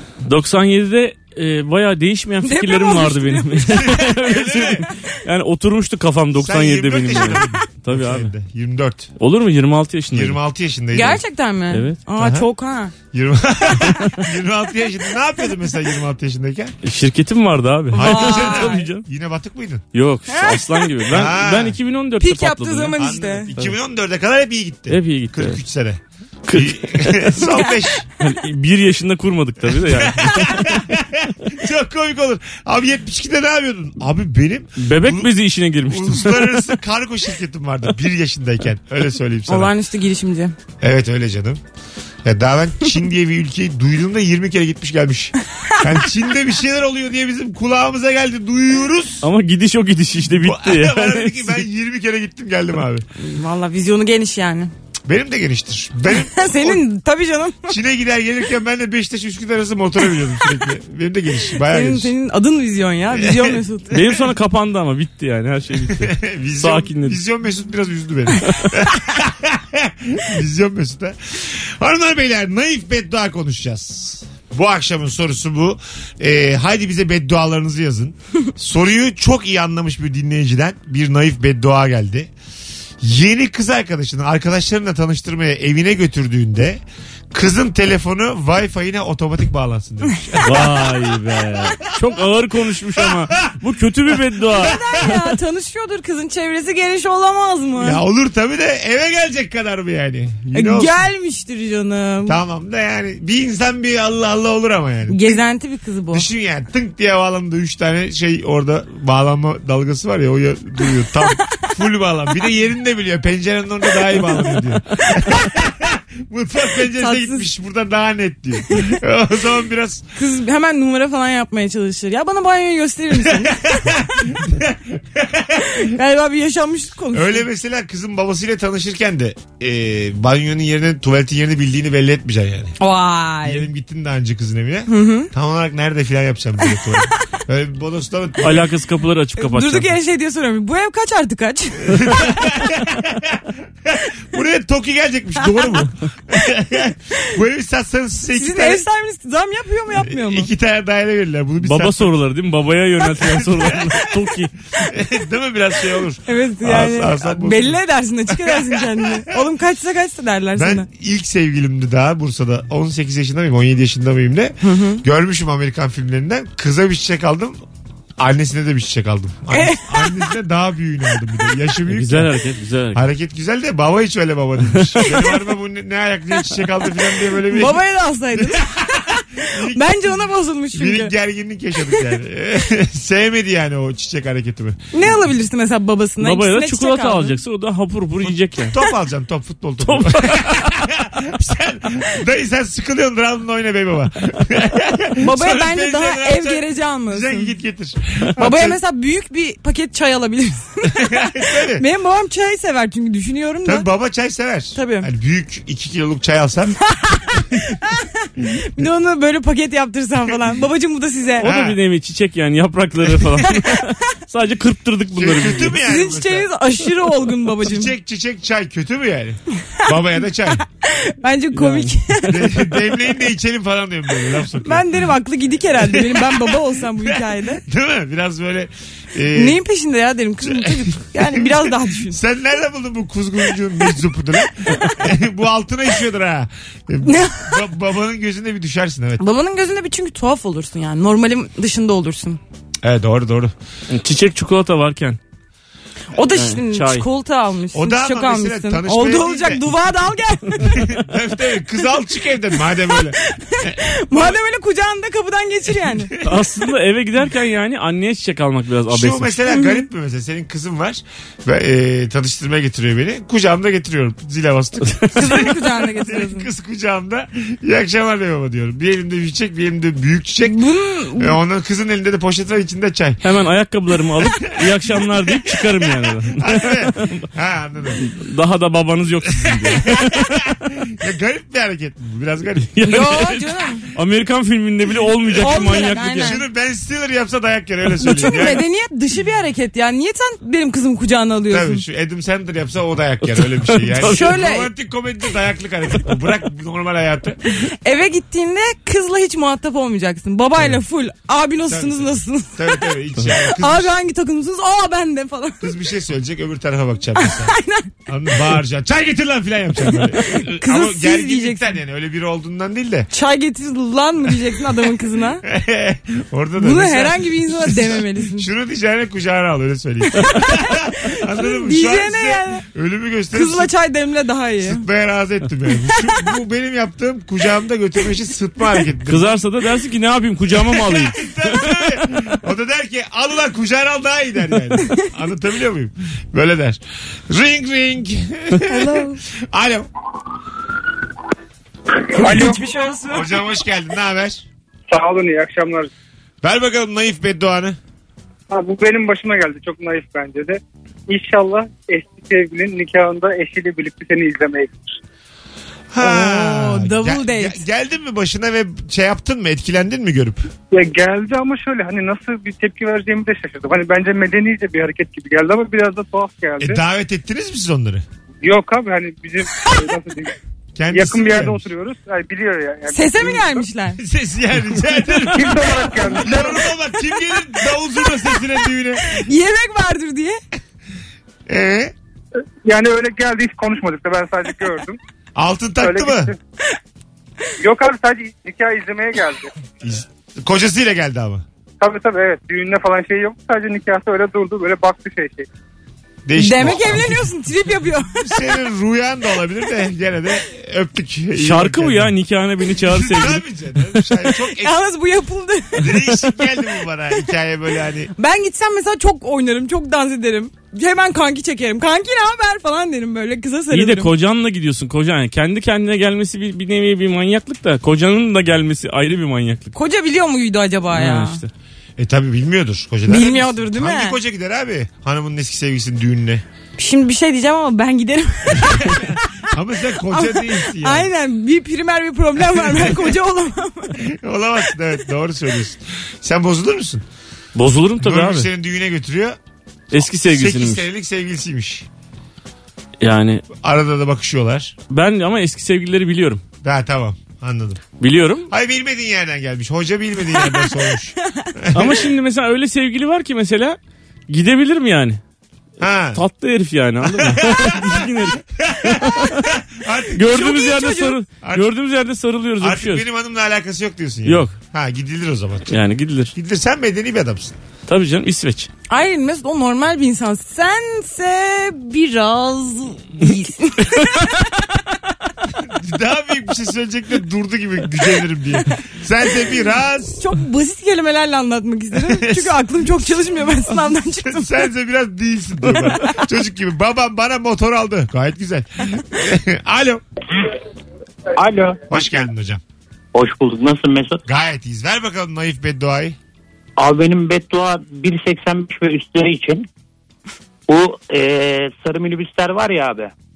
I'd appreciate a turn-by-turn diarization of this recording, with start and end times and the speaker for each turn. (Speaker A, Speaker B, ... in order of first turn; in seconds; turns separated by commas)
Speaker A: 0.3-8.3, Speaker B: 2.4-4.0, Speaker C: 3.8-4.9, Speaker C: 6.4-9.1, Speaker A: 9.2-10.4, Speaker C: 10.1-11.2, Speaker B: 10.9-12.9, Speaker A: 11.7-12.0, Speaker C: 12.2-12.5, Speaker C: 13.1-16.7, Speaker A: 16.8-19.0, Speaker B: 17.9-18.9, Speaker C: 17.9-19.9, Speaker A: 19.9-23.7, Speaker B: 20.3-20.9, Speaker C: 21.1-21.8, Speaker B: 22.2-23.5, Speaker C: 22.9-28.1, Speaker A: 24.9-25.6, Speaker A: 26.5-27.6, Speaker A: 28.2-30.8, Speaker C: 29.7-35.3, Speaker A: 34.8-36.7, Speaker C: 35.9-39.7, Speaker B: 39.5-40.5, Speaker C: 40.8-41.6, Speaker C: 42.2-49.3, Speaker A: 49.2-51.6, Speaker C: 50.3-53.1, Speaker B: 53.2-54.7, Speaker C: 55.1-56.8, Speaker B: 56.1-57.8, Speaker C: 57.6-62.1, Speaker B: 61.6-64.0, Speaker C: 63.1-63.6, Speaker A: 63.9-67.2, Speaker C: 65.9-82.3, Speaker C: 83.0-86.8, Speaker C: 87.3-91.2, Speaker A: 90.4-94.8, Speaker C: 93.0-93.6, Speaker C: 94.5-95.2, Speaker B: 94.5-98.0, Speaker C: 97.8-101.1, Speaker B: 100.5-102.4, Speaker C: 102.3-105.4, Speaker B: 105.1-106.3, Speaker C: 106.1-120.1, Speaker B: 117.0-117.5, Speaker B: 120.2-123.9, Speaker C: 123.2-125.9, Speaker B: 125.8-127.5, Speaker C: 127.1-132.8, Speaker B: 132.8-133.7, Speaker C: 133.4-138.7, Speaker B: 134.9-135.3, Speaker A: 138.4-140.0, Speaker B: 139.4-142.2, Speaker C: 141.8-148.8, Speaker B: 148.3-150.5, Speaker C: 150.0-152.1, Speaker A: 151.6-154.5, Speaker C: 153.1-159.4, Speaker B: 156.3-160.9, Speaker C: 160.6-167.6, Speaker B: 164.6-165.0, Speaker C: 168.2-172.3, Speaker B: 169.5-170.3, Speaker A: 171.9-173.1, Speaker C: 172.9-177.8, Speaker B: 175.1-175.4, Speaker B: 177.3-181.1, Speaker C: 178.3-180.2, Speaker C: 180.7-184.8, Speaker B: 184.9-187.4, Speaker A: 186.2-188.8, Speaker C: 188.7-198.8, Speaker A: 189.8-190.8, Speaker B: 195.2-197.5, Speaker B: 198.4-203.9, Speaker C: 200.9-201.8, Speaker C: 203.6-206.8, Speaker B: 204.7-205.1, Speaker B: 206.9-211.5, Speaker C: 211.4-211.8, Speaker A: 211.4-215.8, Speaker B: 213.4-213.9, Speaker C: 215.1-216.5, Speaker B: 215.9-217.9, Speaker C: 217.6-220.6, Speaker B: 220.7-222.9, Speaker A: 221.6-221.9, Speaker C: 222.3-224.9, Speaker B: 224.6-227.6, Speaker C: 225.8-229.6, Speaker B: 229.3-232.2, Speaker C: 230.4-239.2, Speaker B: 237.0-237.6, Speaker B: 239.2-242.4, Speaker C: 242.8-243.5, Speaker A: 243.9-245.2, Speaker B: 246.1-250.8, Speaker A: 246.3-247.1, Speaker C: 247.7-249.7, Speaker C: 250.6-254.4, Speaker B: 252.9-256.1, Speaker C: 255.8-256.4, Speaker A: 256.2-259.4, Speaker C: 258.9-270.6, Speaker B: 259.5-259.8, Speaker B: 265.1-266.5, Speaker B: 270.4-271.4, Speaker C: 271.1-273.2, Speaker A: 273.2-277.2, Speaker C: 274.2-278.0, Speaker A: 278.0-280.4, Speaker C: 279.4-283.4, Speaker A: 282.7-286.4, Speaker B: 282.9-283.9, Speaker C: 285.3-288.6, Speaker B: 285.4-286.4, Speaker B: 288.0-291.8, Speaker C: 291.5-297.4, Speaker A: 293.4-294.3, Speaker B: 294.1-294.7, Speaker B: 297.6-302.9, Speaker C: 301.7-303.9, Speaker B: 303.6-305.7, Speaker C: 305.6-307.6, Speaker B: 307.2-307.9, Speaker C: 308.1-313.1, Speaker B: 310.3-311.7, Speaker B: 313.1-315.4, Speaker C: 315.4-323.7, Speaker B: 316.6-318.5, Speaker B: 320.2-322.6, Speaker B: 323.3-324.8, Speaker C: 324.6-329.4, Speaker A: 329.1-331.9, Speaker C: 330.7-339.9, Speaker B: 338.6-339.2, Speaker B: 342.1-343.3, Speaker D: 342.2-342.6, Speaker C: 343.1-344.4, Speaker D: 344.9-345.9, Speaker C: 346.4-347.8, Speaker D: 348.5-354.9, Speaker C: 355.9-360.5, Speaker B: 356.0-357.6, Speaker D: 360.7-366.8, Speaker C: 366.6-368.1, Speaker D: 368.4-370.4, Speaker C: 370.8-371.6, Speaker D: 370.9-373.6, Speaker B: 372.9-374.0, Speaker C: 374.0-379.1, Speaker D: 375.2-376.6, Speaker B: 379.0-380.4, Speaker C: 381.5-381.9, Speaker D: 382.6-385.0, Speaker C: 385.4-386.3, Speaker D: 385.8-386.4, Speaker D: 387.6-389.5, Speaker C: 389.8-391.4, Speaker D: 391.8-395.5, Speaker C: 396.2-397.3, Speaker B: 396.4-398.3, Speaker C: 398.1-402.1, Speaker A: 401.4-403.4, Speaker C: 402.8-404.8, Speaker B: 404.6-406.0, Speaker C: 405.8-408.1, Speaker B: 408.1-414.1, Speaker A: 413.7-419.7, Speaker B: 419.7-421.4, Speaker A: 420.9-421.5, Speaker C: 422.0-426.4, Speaker B: 423.1-424.2, Speaker B: 426.8-429.4, Speaker C: 428.6-431.1, Speaker B: 430.1-434.0, Speaker C: 432.5-433.1, Speaker C: 434.0-437.1, Speaker A: 437.6-438.5, Speaker C: 438.0-439.4, Speaker A: 439.9-440.9, Speaker C: 440.3-441.9, Speaker A: 443.0-443.4, Speaker C: 443.5-444.8, Speaker A: 444.9-446.4, Speaker C: 446.6-447.8, Speaker A: 448.0-448.5, Speaker C: 448.5-452.0, Speaker B: 450.4-451.5, Speaker A: 451.7-453.8, Speaker A: 454.3-455.2, Speaker C: 455.8-456.2, Speaker A: 456.1-459.5, Speaker C: 457.1-460.3, Speaker A: 460.1-463.1, Speaker B: 460.2-461.2, Speaker C: 461.4-461.7, Speaker C: 462.6-465.8, Speaker A: 464.3-464.5, Speaker A: 465.7-466.3, Speaker C: 466.3-467.6, Speaker A: 467.9-468.7, Speaker B: 468.9-474.5, Speaker C: 475.6-480.3, Speaker B: 480.2-484.6, Speaker C: 481.9-482.6, Speaker C: 484.2-490.0, Speaker C: 491.9-492.6, Speaker E: 493.1-494.2, Speaker C: 494.3-496.1, Speaker E: 496.8-499.7, Speaker E: 500.7-503.1